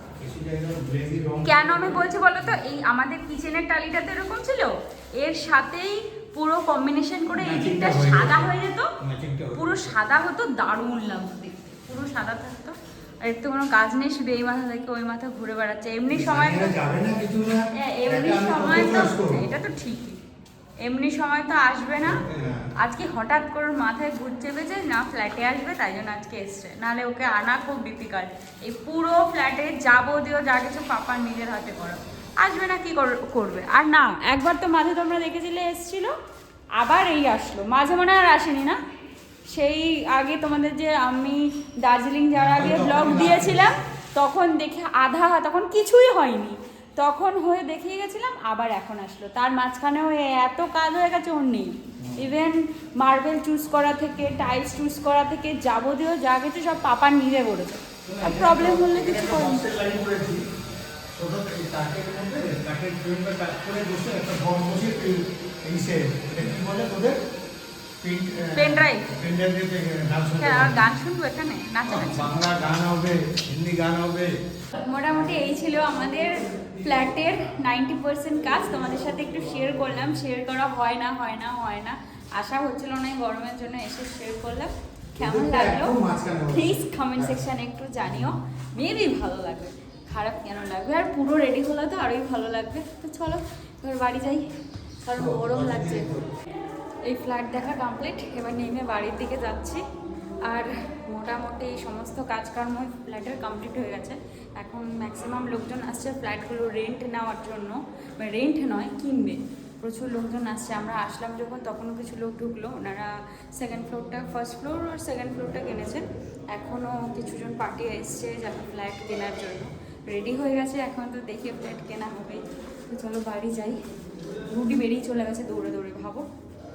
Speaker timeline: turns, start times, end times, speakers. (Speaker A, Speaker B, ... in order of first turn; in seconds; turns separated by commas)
Speaker A: 0.2-2.6, Speaker B: 1.4-8.9, Speaker A: 7.3-9.9, Speaker B: 9.5-16.7, Speaker A: 16.1-19.4, Speaker B: 17.7-20.2, Speaker B: 20.8-22.2, Speaker A: 22.0-22.7, Speaker B: 22.8-36.1, Speaker B: 36.8-38.8, Speaker B: 39.5-59.6, Speaker A: 42.3-43.8, Speaker A: 52.0-52.3, Speaker A: 58.0-60.4, Speaker A: 61.1-67.2, Speaker A: 68.0-70.9, Speaker B: 68.5-69.1, Speaker B: 70.4-72.4, Speaker A: 71.8-74.3, Speaker B: 74.8-86.0, Speaker A: 85.1-87.5, Speaker B: 86.5-94.5, Speaker A: 88.0-88.3, Speaker B: 95.0-96.1, Speaker A: 95.2-96.3, Speaker B: 97.0-99.8, Speaker B: 100.4-123.8, Speaker B: 124.4-126.2